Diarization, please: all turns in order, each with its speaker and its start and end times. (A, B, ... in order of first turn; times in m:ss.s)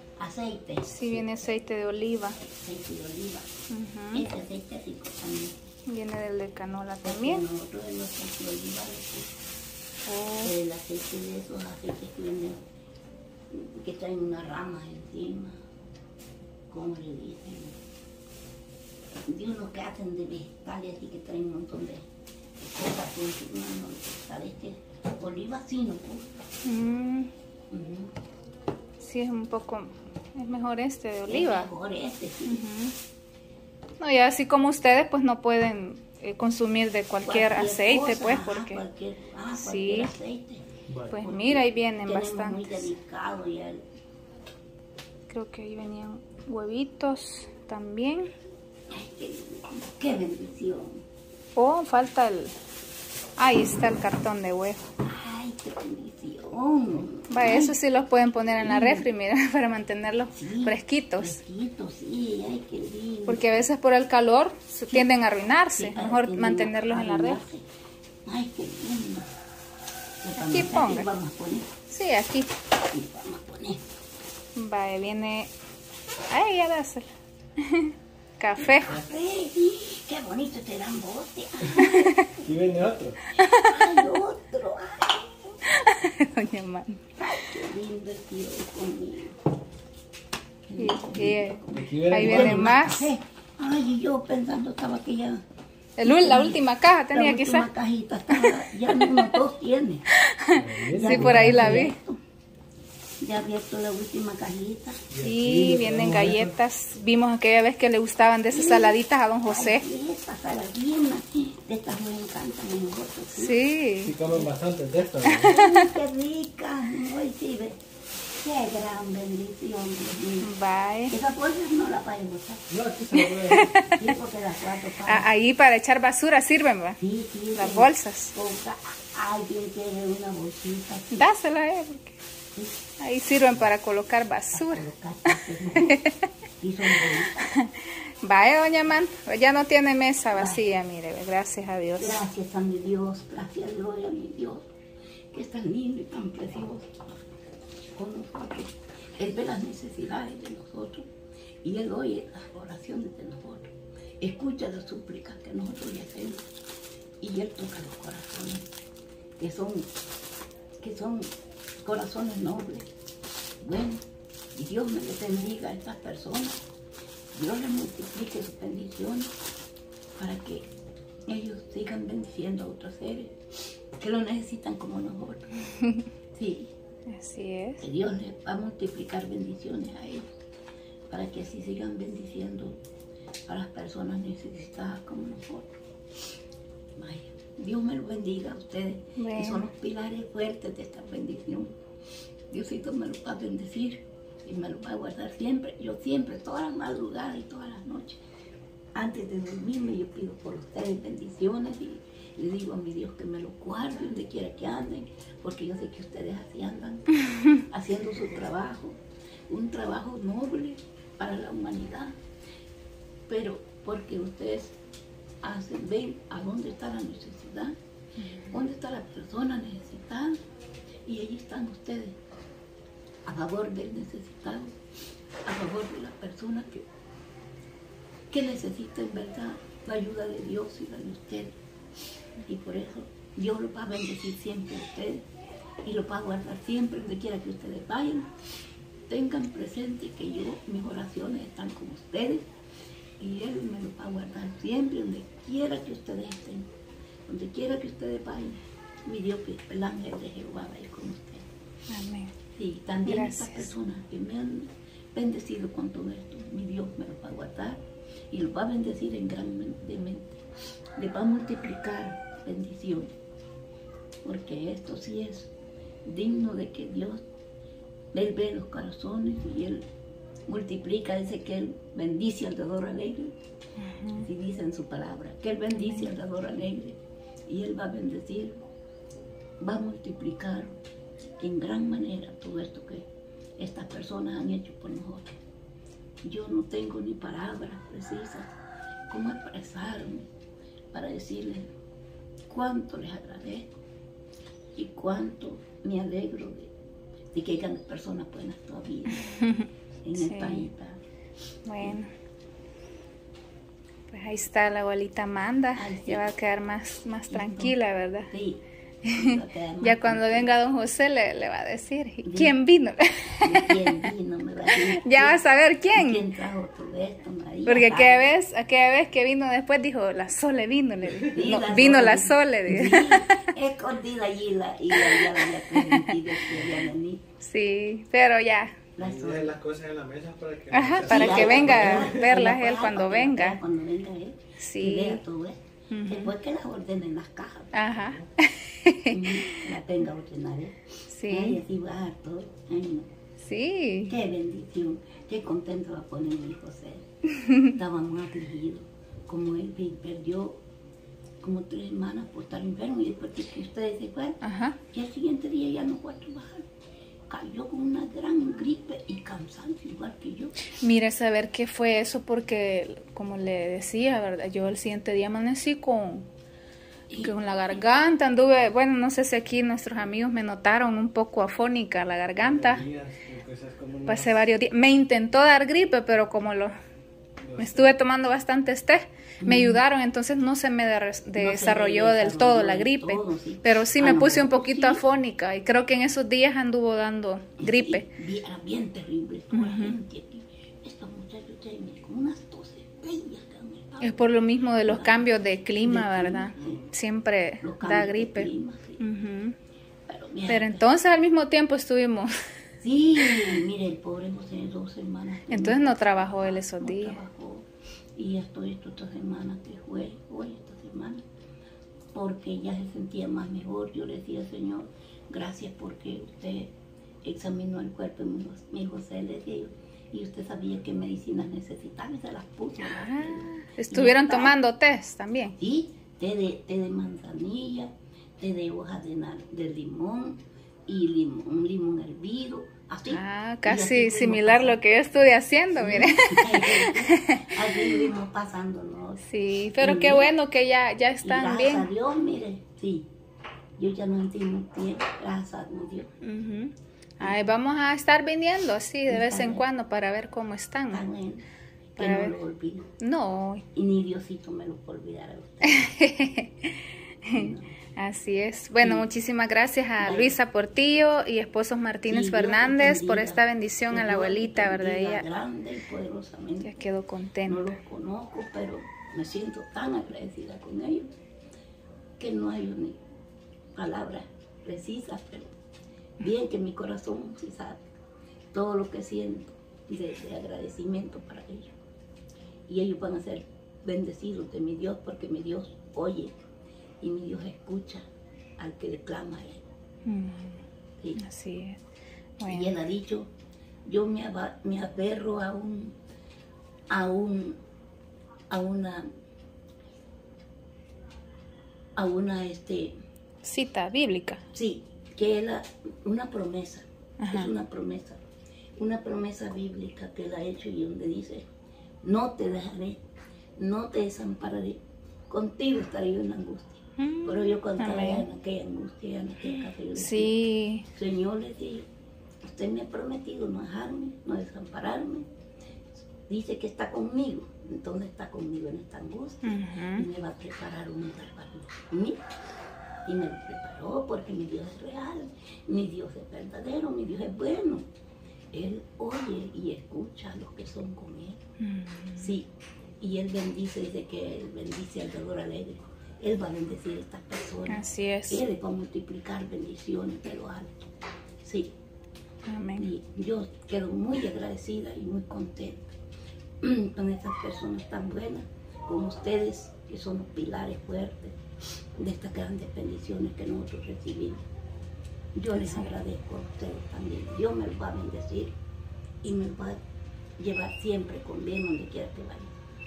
0:00.2-0:01.2 A
0:00.9-0:02.4 B
0:02.4-0:03.5 A
0:03.7-0:04.2 B
0:04.1-0:05.6 A
0:05.9-0:07.4 B
0:07.0-0:09.4 A
0:10.0-0:10.5 B
0:10.4-0:12.6 A
0:13.5-0:15.6 A
0:16.7-0:17.8 A
0:19.2-0:26.4 A
0:26.6-0:27.3 B
0:27.7-0:28.1 A
0:29.0-0:31.7 B
0:31.3-0:32.6 A
0:32.4-0:32.9 B
0:34.0-0:38.8 B
0:37.2-0:43.8 A
0:39.6-0:40.1 B
0:40.9-0:41.2 C
0:41.1-0:42.9 B
0:45.3-0:48.3 B
0:48.9-0:51.0 A
0:51.6-0:52.5 B
0:53.4-0:54.9 B
0:55.0-0:57.8 A
0:57.3-1:01.4 B
0:58.6-0:59.1 A
1:00.3-1:03.7 A
1:03.3-1:07.4 B
1:05.7-1:07.7 A
1:08.2-1:09.3 A
1:10.2-1:11.7 A
1:10.4-1:11.1 B
1:11.9-1:12.5 B
1:12.9-1:13.8 A
1:14.5-1:15.5 B
1:16.3-1:19.0 B
1:18.6-1:22.5 A
1:21.7-1:22.4 B
1:22.4-1:23.2 C
1:23.3-1:23.9 B
1:23.4-1:25.6 A
1:25.6-1:27.5 B
1:27.2-1:29.4 A
1:30.6-1:35.4 A
1:30.8-1:33.1 B
1:31.7-1:32.8 C
1:36.0-1:37.7 B
1:36.0-1:40.0 A
1:38.3-1:39.3 B
1:40.1-1:42.0 B
1:40.5-1:41.9 C
1:40.9-1:42.2 A
1:43.2-1:45.0 A
1:45.1-1:46.5 C
1:45.2-1:49.8 B
1:48.5-1:53.7 A
1:53.3-1:54.2 B
1:54.0-1:55.6 C
1:55.2-1:55.9 B
1:55.4-2:00.5 A
2:00.4-2:01.2 B
2:01.1-2:02.7 A
2:02.7-2:03.8 C
2:03.1-2:04.2 B
2:03.8-2:05.3 A
2:05.0-2:07.0 B
2:07.0-2:11.3 A
2:07.5-2:08.3 B
2:11.1-2:12.2 B
2:13.0-2:16.2 B
2:14.5-2:16.0 A
2:16.6-2:17.4 A
2:17.0-2:22.2 B
2:20.3-2:20.6 A
2:22.0-2:24.7 A
2:25.3-2:26.9 A
2:27.9-2:31.1 A
2:31.6-2:36.5 A
2:37.2-2:38.7 A
2:39.4-2:39.9 A
2:40.8-2:42.9 A
2:43.6-2:44.0 A
2:44.5-2:46.6 A
2:47.3-2:49.3 A
2:50.2-2:50.7 A
2:51.3-2:55.5 A
2:55.7-2:56.0 B
2:56.3-2:56.7 A
2:57.1-2:57.8 B
2:57.8-3:00.3 A
3:01.1-3:02.8 A
3:03.5-3:05.8 A
3:07.0-3:11.8 A
3:09.2-3:09.7 B
3:12.5-3:18.2 A
3:18.9-3:32.2 A
3:33.3-3:34.8 A
3:35.4-3:37.8 A
3:38.2-3:38.6 B
3:38.5-3:40.4 A
3:41.0-3:42.2 A
3:43.2-3:44.8 A
3:45.4-3:46.9 A
3:48.3-3:51.6 A
3:52.4-3:55.3 A
3:55.8-3:58.3 A
3:59.1-4:02.5 A
4:03.2-4:06.7 A
4:07.3-4:11.5 A
4:11.9-4:12.4 B
4:12.5-4:20.4 A
4:13.0-4:13.7 B
4:21.0-4:23.1 A
4:24.2-4:25.5 A
4:26.0-4:27.2 A
4:28.1-4:29.9 A
4:30.5-4:33.4 A
4:33.8-4:34.2 B
4:34.1-4:38.6 A
4:35.8-4:36.1 B
4:39.6-4:40.8 A
4:41.4-4:45.4 A
4:46.2-4:48.6 A
4:49.1-4:50.3 A
4:50.9-4:51.7 A
4:52.5-4:53.7 A
4:54.7-4:56.7 A
4:57.3-4:59.4 A
4:59.2-5:00.7 B
5:00.0-5:01.0 A
5:01.6-5:02.1 B
5:04.1-5:08.3 B
5:05.7-5:06.3 A
5:07.3-5:07.8 A
5:08.3-5:10.5 A
5:09.0-5:14.1 B
5:12.2-5:12.6 A
5:13.4-5:18.3 A
5:14.7-5:16.2 B
5:17.6-5:23.5 B
5:21.3-5:27.2 A
5:24.9-5:26.4 B
5:27.4-5:28.8 B
5:29.0-5:29.6 A
5:29.0-5:32.2 C
5:30.7-5:33.6 B
5:31.0-5:37.9 A
5:34.6-5:35.2 B
5:35.9-5:36.3 B
5:37.7-5:39.7 B
5:37.9-5:38.2 C
5:39.1-5:43.1 A
5:41.1-5:41.6 B
5:43.4-5:44.1 B
5:44.1-5:47.0 A
5:47.4-5:47.7 B
5:47.6-5:50.6 A
5:51.4-5:56.7 A
5:54.4-5:54.8 B
5:57.3-6:00.6 A
6:00.8-6:06.3 B
6:07.2-6:12.8 B
6:12.4-6:14.4 C
6:14.0-6:16.7 B
6:17.4-6:17.9 C
6:17.6-6:28.1 B
6:19.4-6:19.8 A
6:21.3-6:25.0 A
6:27.6-6:35.3 A
6:29.5-6:30.0 B
6:34.0-6:39.6 B
6:35.8-6:36.8 A
6:37.6-6:39.0 A
6:40.0-6:40.8 A
6:40.5-6:42.3 B
6:42.8-6:51.2 A
6:43.2-6:43.6 B
6:45.5-6:47.2 B
6:52.1-7:04.6 A
7:02.8-7:05.6 B
7:05.6-7:14.8 A
7:13.1-7:18.1 B
7:15.8-7:19.2 A
7:19.2-7:21.9 B
7:19.8-7:20.3 A
7:21.2-7:23.1 A
7:23.8-7:26.1 A
7:26.2-7:31.1 B
7:29.1-7:29.6 A
7:30.9-7:31.4 A
7:32.0-7:32.4 B
7:32.0-7:32.9 A
7:33.0-7:33.6 B
7:33.7-7:36.0 A
7:35.6-7:45.2 B
7:37.3-7:37.7 A
7:38.8-7:39.1 A
7:40.0-7:40.4 A
7:42.0-7:46.7 A
7:46.6-7:47.7 B
7:47.4-7:51.1 A
7:52.2-7:53.0 A
7:53.7-7:55.5 A
7:56.2-7:57.8 A
7:58.5-8:01.7 A
8:02.7-8:06.4 A
8:07.0-8:08.1 A
8:08.6-8:09.6 A
8:10.0-8:10.6 B
8:11.2-8:11.8 B
8:12.4-8:12.8 B
8:12.4-8:13.3 A
8:13.8-8:16.0 A
8:16.9-8:17.6 A
8:18.5-8:19.1 A
8:22.0-8:23.0 A
8:23.4-8:24.4 B
8:24.5-8:28.2 A
8:27.2-8:27.5 B
8:28.8-8:31.5 A
8:32.0-8:33.0 A
8:33.6-8:41.9 A
8:37.0-8:38.2 B
8:39.9-8:40.9 B
8:42.4-8:45.3 A
8:45.9-8:52.2 A
8:49.4-8:50.1 B
8:53.0-8:57.9 A
8:58.5-9:01.4 A
9:01.6-9:02.3 B
9:02.2-9:10.9 A
9:07.7-9:08.4 B
9:11.4-9:11.8 A
9:12.4-9:12.9 B
9:12.8-9:15.9 A
9:16.6-9:21.4 A
9:21.9-9:24.4 A
9:25.3-9:28.6 A
9:29.2-9:29.8 A
9:30.4-9:32.5 A